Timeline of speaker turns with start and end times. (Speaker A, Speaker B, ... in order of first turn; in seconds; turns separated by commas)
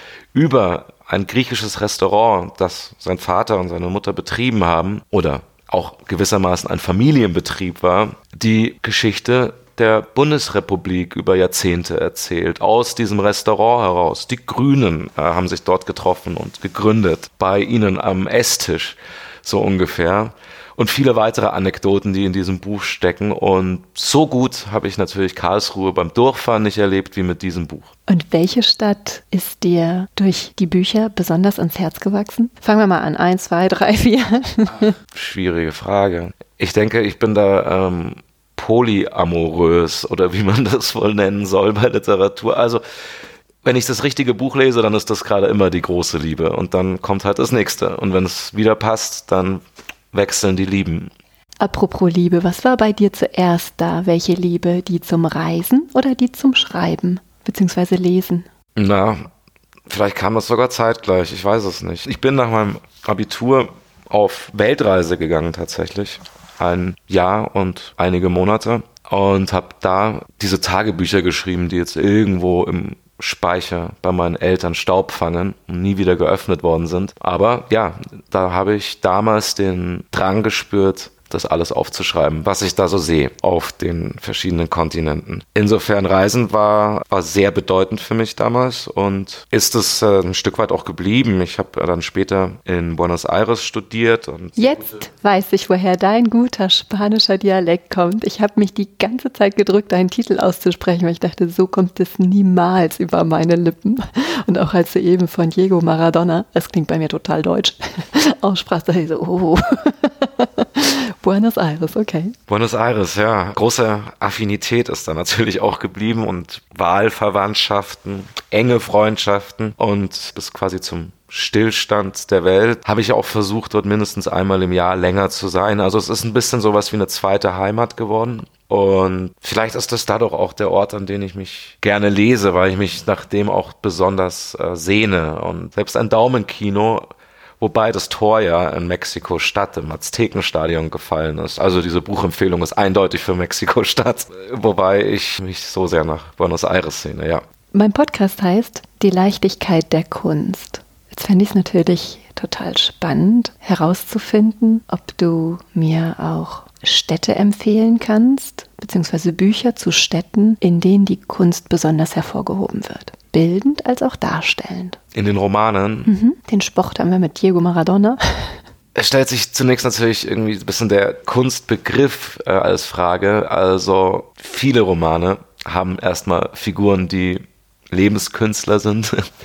Speaker A: 0.3-27.9, Speaker B: 28.1-35.0, Speaker A: 35.1-42.8, Speaker A: 43.6-51.1, Speaker B: 51.6-58.5, Speaker A: 58.8-59.2, Speaker A: 59.9-95.0, Speaker B: 94.6-112.3, Speaker A: 112.5-137.1, Speaker A: 137.6-147.4, Speaker B: 147.7-165.0, Speaker A: 165.1-166.1, Speaker B: 166.1-168.6, Speaker A: 168.9-179.2